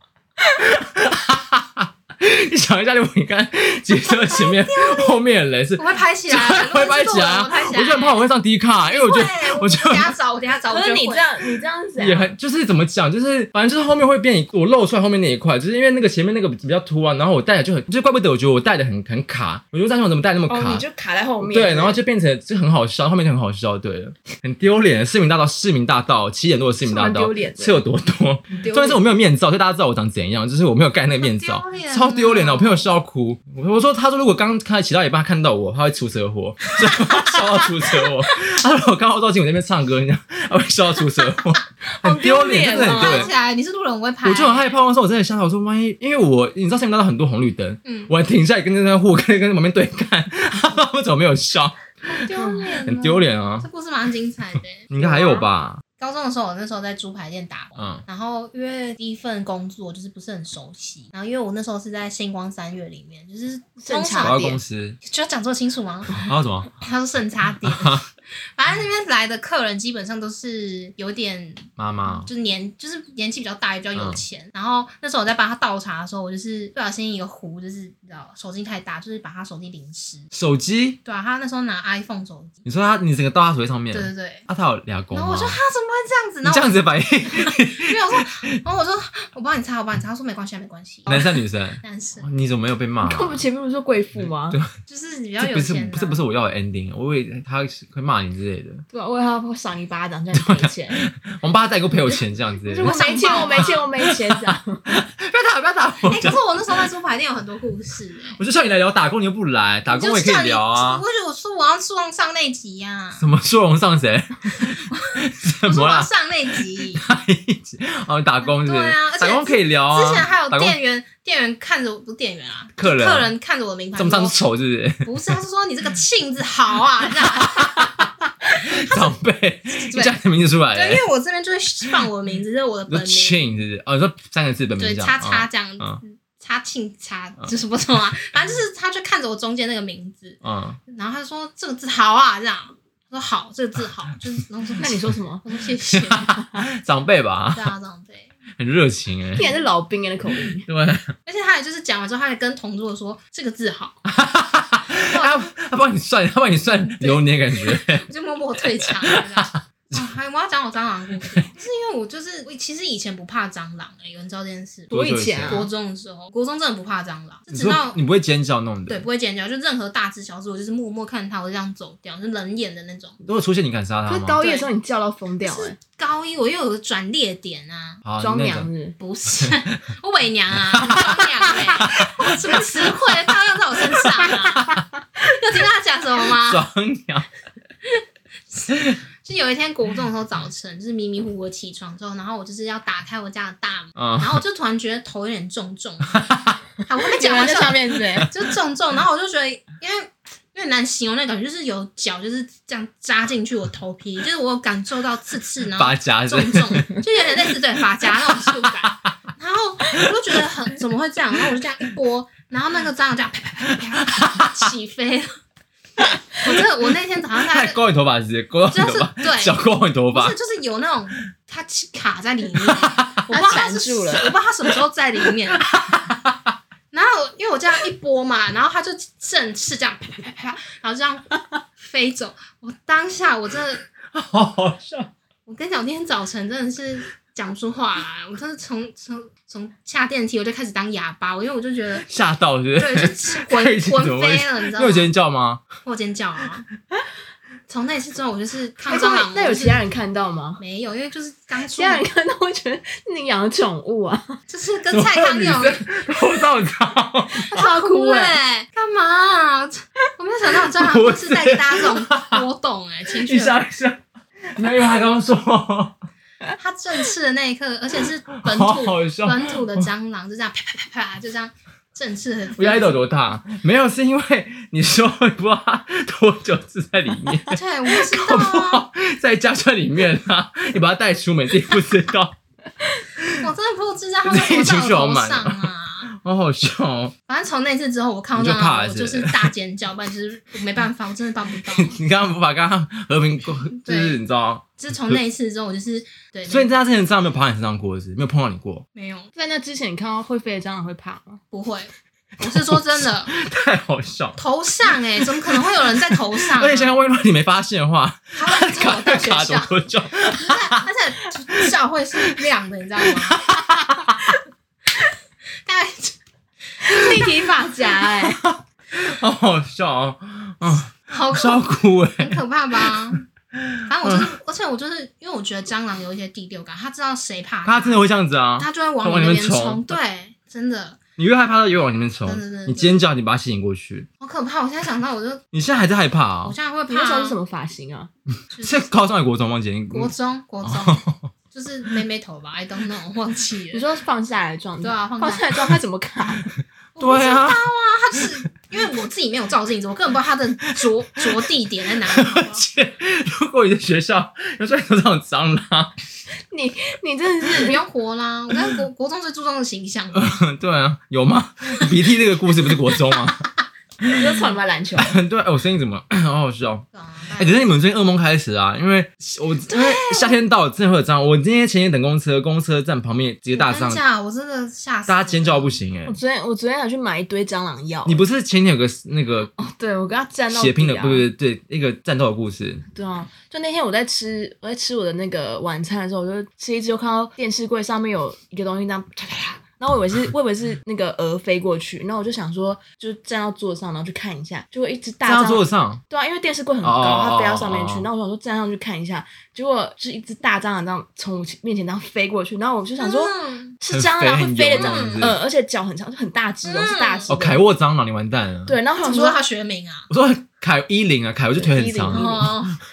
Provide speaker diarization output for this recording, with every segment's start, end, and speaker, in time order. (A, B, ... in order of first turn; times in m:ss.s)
0:00.4-0:10.1 A
0:04.2-0:05.2 B
0:05.8-0:08.3 B
0:08.8-0:11.3 B
0:10.7-0:12.3 C
0:12.0-0:20.8 A
0:20.5-0:22.0 C
0:21.4-0:43.3 A
0:26.8-0:27.8 C
0:28.5-0:29.0 C
0:31.2-0:32.9 B
0:41.9-0:43.3 C
0:42.5-0:44.8 B
0:44.2-0:53.7 A
0:47.8-0:48.1 B
0:52.1-0:54.9 B
0:52.3-0:52.8 C
0:54.9-0:55.8 A
0:55.0-0:55.4 C
0:56.0-1:04.4 B
0:57.8-0:58.0 A
1:03.8-1:04.6 C
1:04.2-1:05.0 A
1:05.0-1:06.3 B
1:06.1-1:06.7 A
1:06.8-1:20.3 B
1:07.6-1:08.0 A
1:11.8-1:12.3 A
1:14.0-1:14.2 A
1:20.3-1:21.0 A
1:21.0-1:22.6 B
1:22.6-1:25.6 A
1:23.9-1:24.5 B
1:25.1-1:32.2 B
1:26.4-1:28.6 A
1:31.1-1:33.4 A
1:33.0-1:34.6 C
1:34.2-1:34.7 A
1:34.9-1:36.2 B
1:35.4-1:38.8 A
1:38.9-1:41.0 C
1:40.3-1:46.4 A
1:42.7-1:44.9 C
1:42.8-1:43.9 B
1:46.0-1:48.4 B
1:48.4-1:51.0 A
1:49.9-1:53.3 B
1:53.2-1:56.1 A
1:54.9-1:57.0 B
1:56.9-2:00.8 A
1:58.5-2:04.4 B
2:02.8-2:03.3 A
2:04.0-2:05.4 A
2:05.0-2:09.2 B
2:07.2-2:11.0 A
2:09.7-2:10.2 B
2:10.7-2:13.4 B
2:12.9-2:16.0 A
2:14.8-2:26.4 B
2:20.4-2:20.8 A
2:24.8-2:25.4 C
2:25.9-2:27.7 A
2:27.5-2:28.3 B
2:28.6-2:29.5 A
2:29.4-2:30.7 C
2:29.4-2:29.6 B
2:30.6-2:31.1 A
2:31.3-2:34.0 B
2:34.1-2:38.1 A
2:35.0-2:35.5 B
2:36.9-2:48.0 B
2:38.6-2:40.0 A
2:44.9-2:45.7 A
2:44.9-2:45.7 C
2:47.5-2:49.0 A
2:48.9-2:53.2 B
2:53.2-2:54.4 A
2:54.1-2:55.8 C
2:54.4-2:54.7 B
2:55.4-2:58.0 B
2:58.0-2:58.7 A
2:58.2-2:59.0 C
2:59.0-3:06.7 B
3:00.7-3:03.2 A
3:03.9-3:04.8 A
3:06.3-3:07.3 A
3:08.5-3:35.4 B
3:08.7-3:09.0 A
3:14.0-3:14.4 A
3:16.1-3:16.6 A
3:17.0-3:18.3 C
3:25.7-3:27.5 A
3:28.2-3:28.9 A
3:34.0-3:34.6 A
3:36.4-3:37.8 B
3:37.4-3:40.4 A
3:38.7-3:39.6 B
3:40.1-3:45.7 B
3:42.6-3:43.3 A
3:43.3-3:44.3 C
3:45.6-3:46.5 A
3:46.9-3:51.3 B
3:51.8-3:53.9 B
3:54.1-3:55.1 A
3:55.5-4:02.1 B
4:02.0-4:05.6 A
4:02.8-4:05.1 B
4:05.8-4:06.7 B
4:07.7-4:09.8 B
4:08.8-4:10.6 C
4:10.6-4:12.0 B
4:11.7-4:14.4 C
4:14.5-4:16.0 B
4:14.9-4:17.5 A
4:17.5-4:23.6 B
4:17.5-4:18.4 C
4:20.7-4:22.4 A
4:23.2-4:24.0 A
4:24.5-4:26.0 A
4:26.6-4:33.0 B
4:28.4-4:29.9 A
4:32.6-4:42.4 A
4:37.5-4:38.8 B
4:43.2-4:43.4 A
4:43.4-4:46.1 B
4:44.2-4:47.1 A
4:47.3-4:52.0 B
4:48.4-4:49.5 A
4:51.6-4:55.2 A
4:53.8-4:54.2 B
4:54.8-4:56.7 B
4:56.5-4:58.8 A
4:59.0-4:59.3 B
4:59.4-5:01.4 C
5:01.5-5:03.3 B
5:02.4-5:04.4 A
5:04.4-5:06.9 B
5:04.9-5:10.9 A
5:08.4-5:09.7 B
5:10.3-5:13.4 B
5:13.0-5:14.4 A
5:15.6-5:16.2 B
5:16.8-5:18.4 C
5:16.9-5:17.2 B
5:18.1-5:24.3 A
5:21.1-5:23.2 B
5:23.9-5:28.0 B
5:27.6-5:30.0 A
5:28.6-5:31.0 B
5:31.2-5:34.1 A
5:32.2-5:33.0 B
5:34.2-5:35.4 B
5:35.5-5:36.6 A
5:36.4-5:37.4 B
5:36.9-5:38.1 C
5:38.5-5:38.8 B
5:38.6-5:40.1 A
5:39.9-5:43.8 B
5:40.6-5:41.3 A
5:43.7-5:46.5 C
5:44.8-5:45.6 B
5:47.0-5:52.6 B
5:47.0-5:47.6 A
5:50.8-5:51.2 A
5:52.1-5:55.9 A
5:56.5-5:57.8 C
5:57.5-6:00.4 B
6:00.1-6:03.5 A
6:04.0-6:04.4 A
6:04.1-6:05.2 C
6:05.0-6:06.9 A
6:06.9-6:07.7 B
6:07.4-6:14.0 A
6:09.7-6:10.4 B
6:13.5-6:15.8 B
6:15.1-6:16.2 A
6:16.1-6:18.2 C
6:18.1-6:19.5 A
6:19.6-6:21.3 C
6:20.5-6:22.8 A
6:22.9-6:47.6 C
6:35.2-6:36.0 A
6:36.8-6:38.1 A
6:43.0-6:43.8 B
6:43.9-6:45.4 A
6:44.7-6:45.3 B
6:46.6-6:47.3 B
6:47.3-6:48.8 A
6:48.7-6:49.4 C
6:49.0-6:50.1 B
6:50.1-6:52.6 A
6:51.6-6:52.6 C
6:52.1-6:52.8 B